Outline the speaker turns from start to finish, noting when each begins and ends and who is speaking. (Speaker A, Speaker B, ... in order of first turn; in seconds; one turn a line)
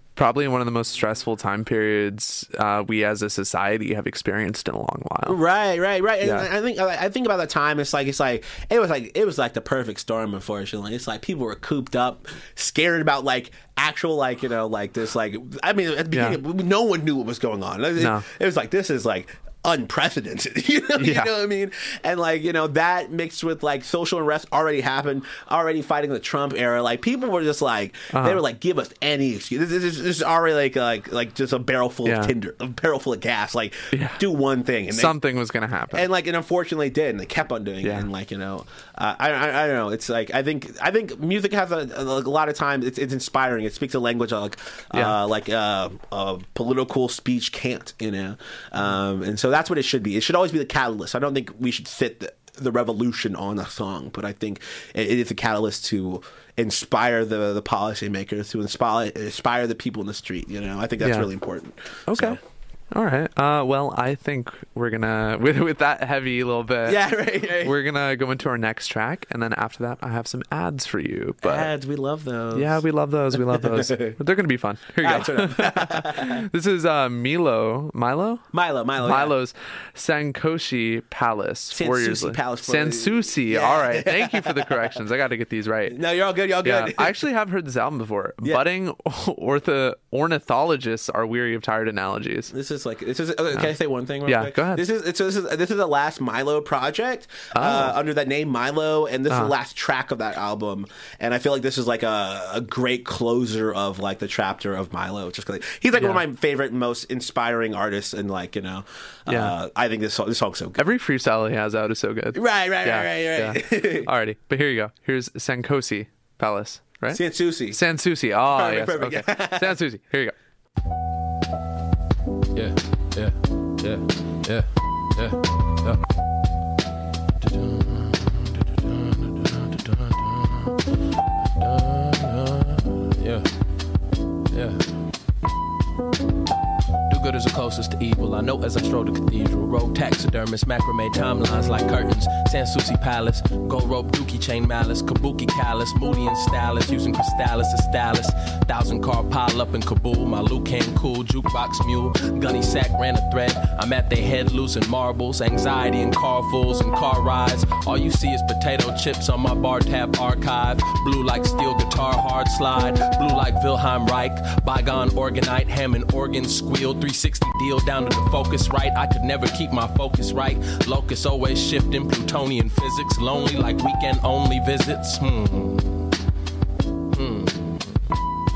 Speaker A: 0.1-5.4
Speaker B: 5.2-35.1
Speaker A: 16.1-16.4
Speaker A: 18.0-18.2
Speaker A: 21.0-21.3
Speaker A: 28.1-28.4
Speaker A: 32.0-32.3
Speaker A: 33.9-34.2
Speaker A: 34.9-36.1
Speaker B: 35.9-62.4
Speaker A: 61.0-61.3
Speaker A: 62.1-62.4
Speaker A: 62.9-71.7
Speaker B: 66.8-67.8
Speaker B: 71.4-72.8
Speaker A: 72.5-78.5
Speaker B: 73.3-74.2
Speaker B: 75.0-76.4
Speaker B: 78.5-79.3
Speaker A: 79.0-86.0
Speaker B: 81.7-84.9
Speaker B: 85.9-87.2
Speaker A: 86.6-92.5
Speaker B: 92.5-110.8
Speaker A: 94.3-94.8
Speaker A: 97.5-98.0
Speaker A: 109.3-109.5
Speaker A: 110.8-120.3
Speaker B: 112.3-114.1
Speaker B: 117.1-117.8
Speaker B: 118.5-119.7
Speaker C: 122.5-126.0
Speaker C: 127.4-130.7
Speaker C: 131.6-133.5
Speaker C: 134.5-134.8
Speaker C: 137.1-176.0
Speaker C: 177.1-177.6